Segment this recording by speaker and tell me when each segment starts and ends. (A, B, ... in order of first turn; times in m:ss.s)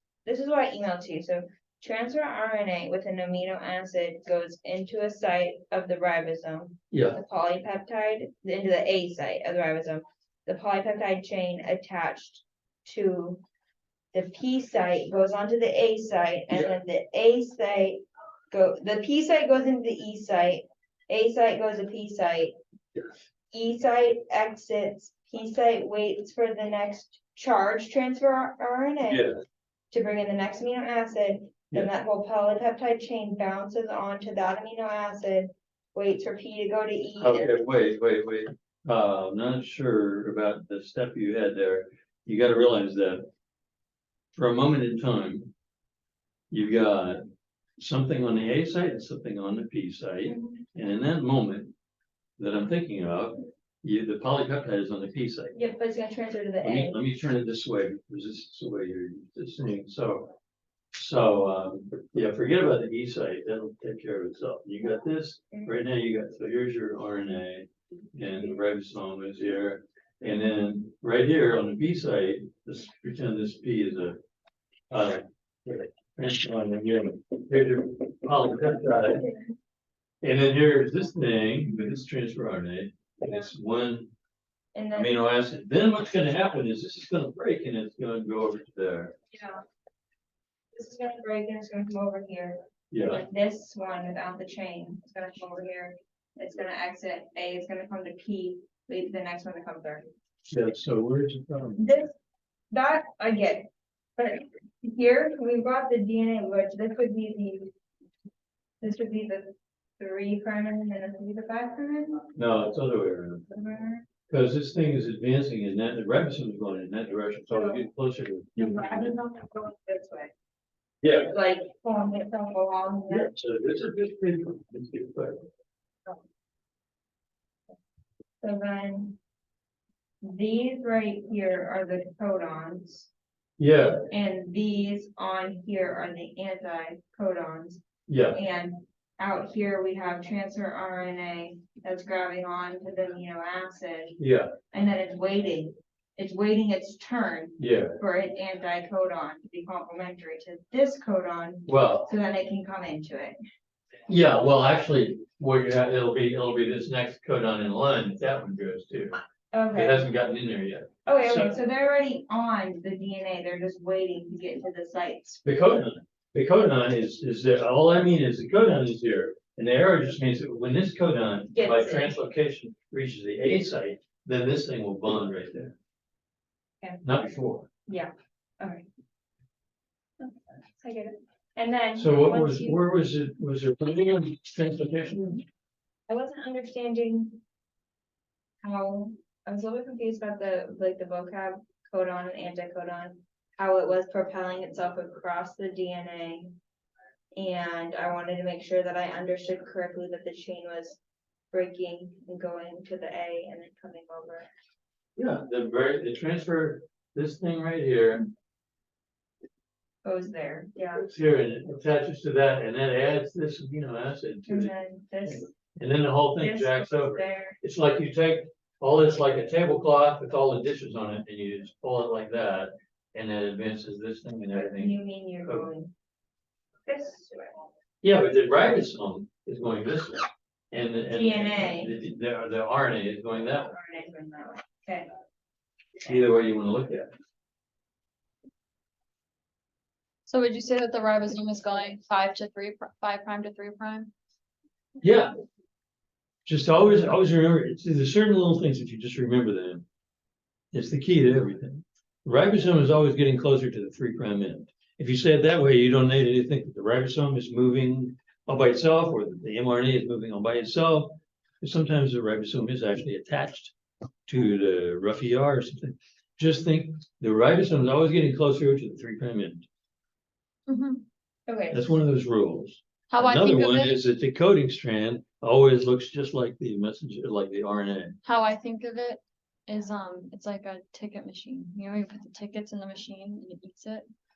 0:00.3-0:13.4 A
0:06.9-0:07.2 B
0:14.1-0:22.6 A
0:23.5-0:29.3 A
0:29.1-0:29.4 B
0:29.9-0:37.6 A
0:37.2-0:43.2 B
0:44.3-0:45.5 B
0:46.5-0:47.2 B
0:47.8-0:51.7 B
0:50.3-0:50.6 A
0:52.4-0:55.6 B
0:55.6-0:57.0 A
0:56.6-1:00.4 B
1:00.9-1:14.2 B
1:14.9-1:19.3 B
1:20.2-1:24.1 B
1:24.8-1:25.1 A
1:24.9-1:29.2 B
1:29.3-1:29.6 A
1:30.7-1:40.1 A
1:32.9-1:33.2 B
1:40.5-1:41.8 B
1:41.8-1:42.1 A
1:42.7-1:47.7 A
1:48.8-1:52.3 A
1:52.4-1:53.5 B
1:53.5-1:54.1 A
1:54.3-1:59.1 B
1:57.5-1:57.8 A
1:58.6-2:00.3 A
2:01.0-2:01.3 B
2:01.3-2:03.3 A
2:03.1-2:05.4 B
2:08.4-2:09.2 A
2:10.2-2:13.1 A
2:13.6-2:14.1 B
2:14.1-2:24.2 A
2:18.1-2:18.4 B
2:24.2-2:24.5 B
2:24.7-2:33.4 A
2:27.6-2:28.0 B
2:31.7-2:32.1 B
2:34.1-2:39.2 B
2:39.5-2:40.1 A
2:39.7-2:41.5 B
2:41.1-2:45.4 A
2:45.4-2:55.8 B
2:51.5-2:52.1 A
2:57.0-2:57.7 B
2:57.9-2:58.9 A
3:00.2-3:02.8 A
3:02.0-3:05.4 B
3:06.1-3:07.4 A
3:08.6-3:16.6 A
3:17.4-3:21.0 A
3:21.5-3:24.5 A
3:25.2-3:28.3 B
3:30.0-3:31.0 A
3:31.0-3:34.7 B
3:34.5-3:35.5 A
3:35.3-3:45.7 B
3:36.4-3:37.6 A
3:44.5-3:45.9 A
3:46.9-3:47.7 A
3:48.0-3:53.7 B
3:51.1-3:51.9 A
3:53.7-3:55.1 A
3:56.0-3:57.1 B
4:00.3-4:04.1 C
4:05.0-4:05.3 B
4:06.5-4:09.8 B
4:10.7-4:23.8 B
4:24.3-4:29.7 B
4:30.7-4:31.0 C
4:31.5-4:32.0 A
4:31.7-4:38.2 B
4:33.1-4:34.0 C
4:38.2-4:44.1 C